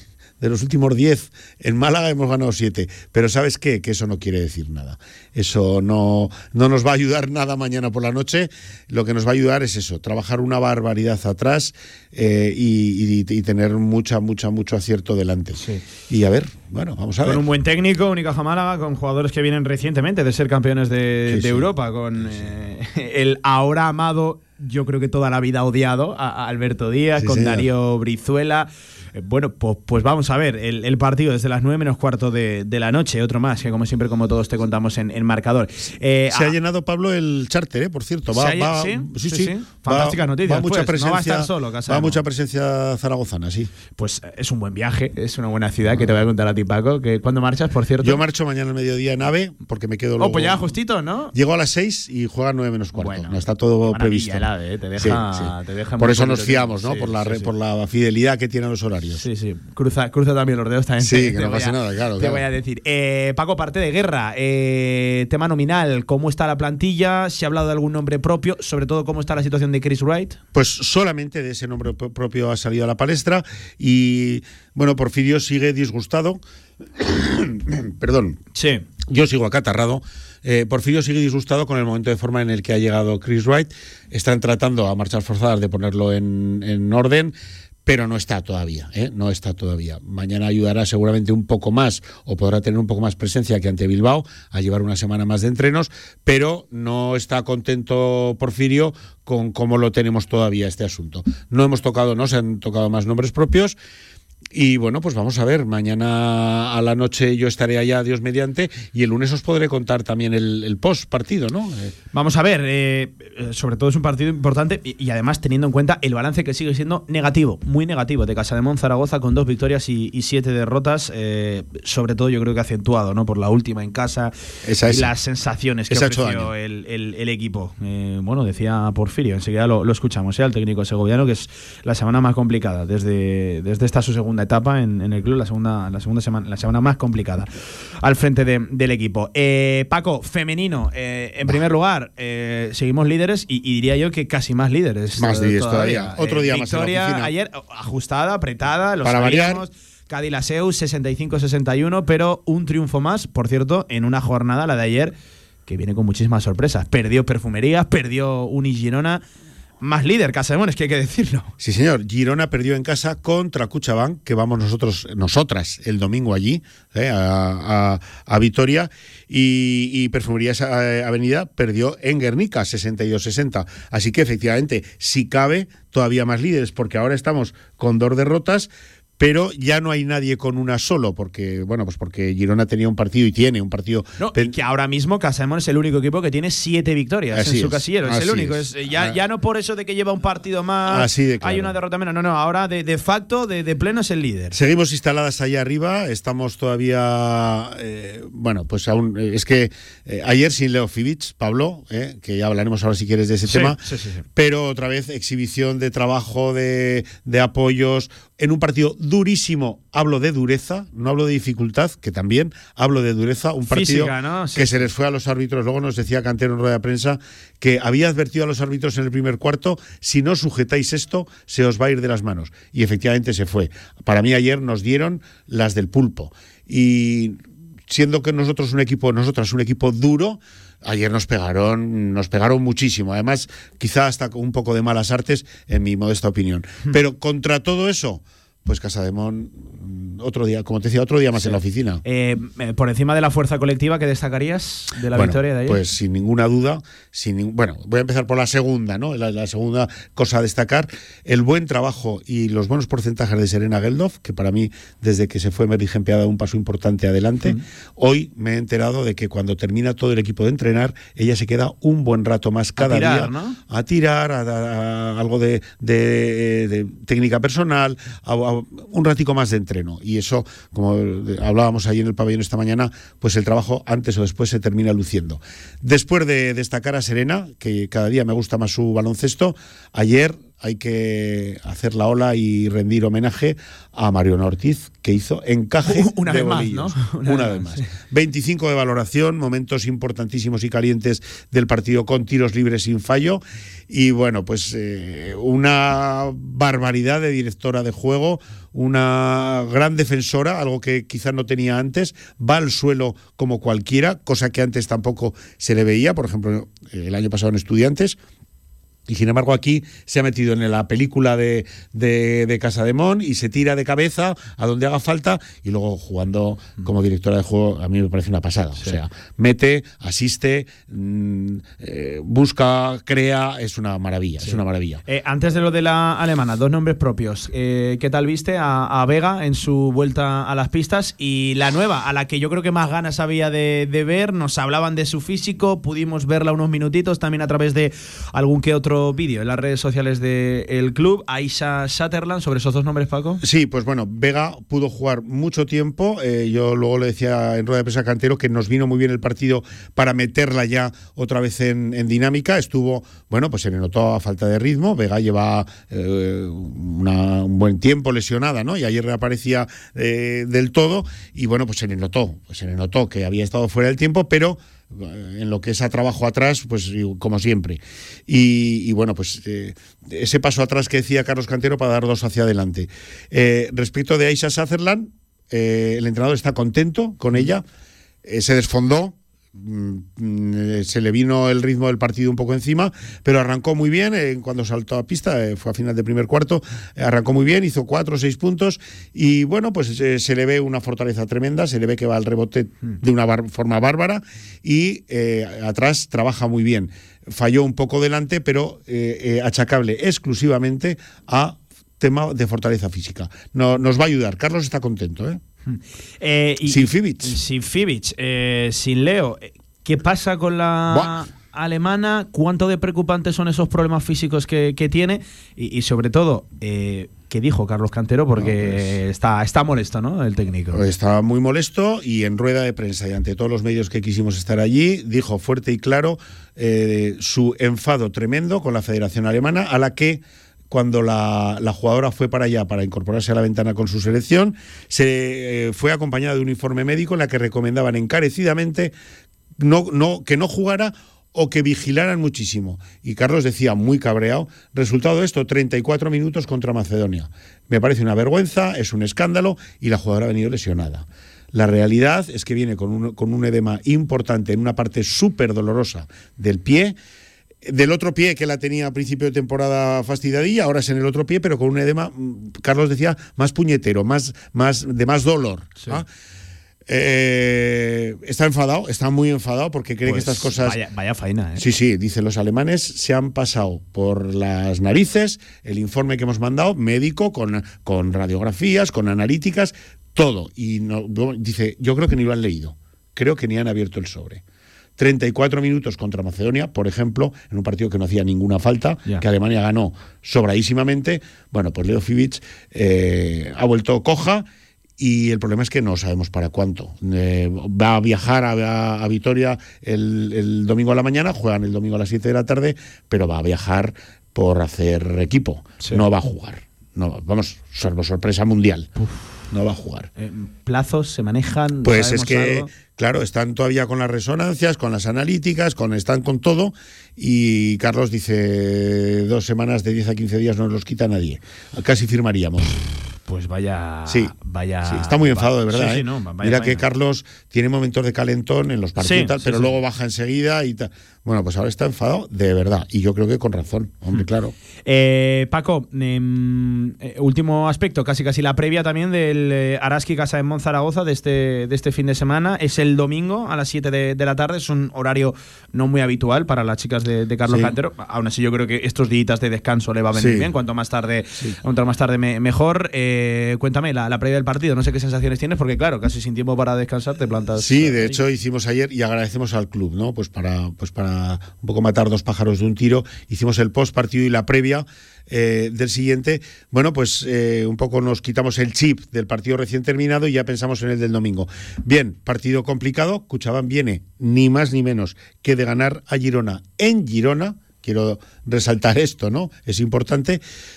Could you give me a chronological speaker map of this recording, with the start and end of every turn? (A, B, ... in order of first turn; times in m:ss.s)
0:00.4-0:17.4 A
0:15.6-0:15.8 B
0:17.2-0:36.6 B
0:21.3-0:21.7 A
0:22.2-0:22.5 A
0:27.2-0:27.7 A
0:36.3-0:43.7 A
0:38.3-0:42.2 B
0:44.0-0:48.2 B
0:48.0-0:50.7 A
0:50.2-0:51.3 B
0:51.3-0:54.5 A
0:53.0-0:57.5 B
0:55.0-0:59.2 A
0:59.2-1:10.4 B
1:01.0-1:02.4 A
1:10.5-1:16.4 A
1:17.0-1:18.4 A
1:18.6-1:18.8 B
1:19.1-1:43.8 A
1:44.5-1:51.9 A
1:52.1-2:04.3 B
2:04.7-2:05.1 A
2:04.9-2:17.5 B
2:05.9-2:06.5 A
2:18.0-2:35.1 B
2:25.2-2:27.3 A
2:29.0-2:29.6 A
2:35.7-2:39.2 B
2:39.8-2:41.5 B
2:41.6-3:04.5 A
3:04.2-3:14.6 B
3:07.3-3:09.2 A
3:10.9-3:11.7 A
3:14.5-3:23.8 A
3:23.5-3:24.2 B
3:24.4-4:02.0 A
3:33.7-3:34.9 B
4:01.4-4:05.8 B
4:05.1-5:08.2 A
4:22.8-4:23.6 B
4:45.8-4:47.9 B
5:09.1-5:25.0 A
5:24.4-5:43.4 B
5:43.4-6:17.6 A
6:18.2-6:45.4 A
6:45.7-7:00.8 B
6:46.7-6:47.4 A
6:50.9-6:51.2 A
6:58.4-6:58.9 A
7:00.7-7:18.9 A
7:19.6-7:37.0 A
7:37.6-7:46.1 A
7:45.8-7:46.0 B
7:46.9-7:50.8 A
7:50.0-7:51.7 B
7:51.6-8:04.4 A
8:05.0-8:14.4 A
8:15.0-8:28.9 A
8:25.8-8:26.1 B
8:29.5-8:30.1 A
8:30.2-8:32.7 B
8:31.8-8:42.8 A
8:43.3-8:46.9 B
8:44.9-8:54.5 A
8:49.0-8:49.8 B
8:54.9-9:18.2 B
9:10.2-9:10.5 A
9:17.6-9:40.4 A